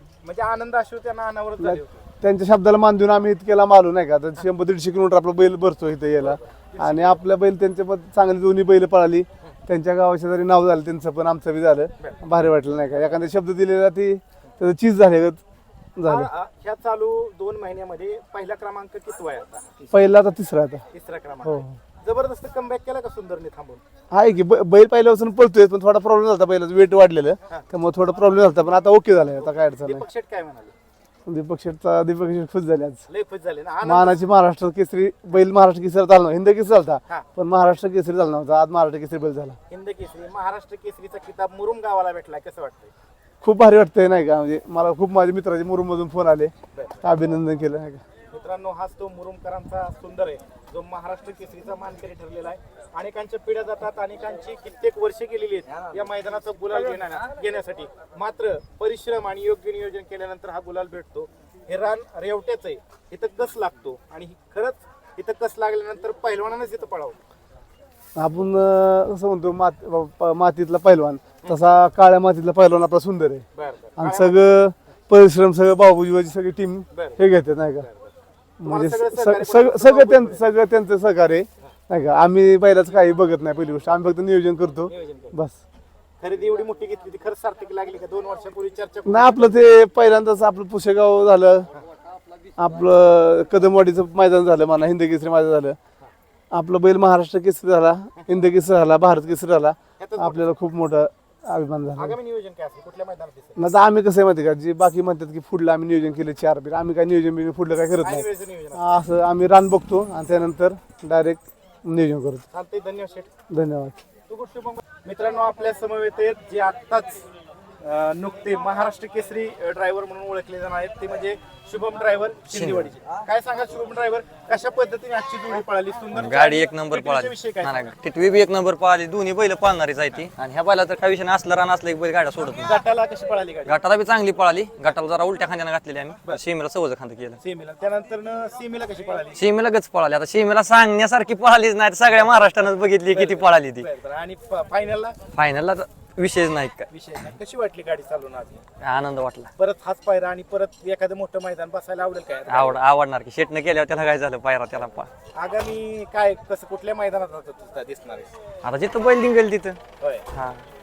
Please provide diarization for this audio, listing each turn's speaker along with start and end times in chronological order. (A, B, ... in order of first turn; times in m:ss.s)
0:00.2-0:02.0 A
0:01.6-0:15.4 B
0:06.3-0:07.2 A
0:16.0-0:16.3 B
0:16.1-0:19.9 A
0:19.9-0:20.8 B
0:20.9-0:23.8 A
0:21.4-0:21.8 B
0:24.1-0:30.0 B
0:29.4-0:30.7 A
0:31.2-0:33.0 B
0:33.1-0:34.2 A
0:33.8-0:39.6 B
0:39.7-0:42.9 A
0:43.4-0:48.0 B
0:48.3-1:07.2 A
1:08.2-1:13.4 B
1:13.5-1:14.4 A
1:14.0-1:17.9 B
1:16.9-1:17.2 A
1:17.8-1:18.1 A
1:18.6-1:25.6 B
1:18.6-1:20.4 A
1:24.9-1:25.3 A
1:26.2-1:29.6 A
1:29.0-1:31.7 B
1:32.6-1:35.8 B
1:36.5-1:42.1 B
1:40.0-1:40.5 A
1:42.0-1:43.6 A
1:43.6-1:52.4 B
1:48.0-1:48.8 A
1:52.5-1:53.3 A
1:53.5-1:54.0 B
1:54.3-1:57.2 A
1:57.8-2:07.8 A
2:02.5-2:02.9 C
2:06.1-2:12.7 C
2:12.6-2:13.7 A
2:13.6-2:17.4 C
2:17.4-2:19.4 A
2:19.3-2:23.9 C
2:23.1-2:25.2 A
2:25.3-2:26.9 C
2:26.9-2:28.6 A
2:28.8-2:29.5 C
2:29.6-2:32.8 A
2:32.5-2:35.1 C
2:35.3-2:38.3 A
2:38.6-2:39.8 C
2:40.0-2:40.2 A
2:40.3-2:40.6 C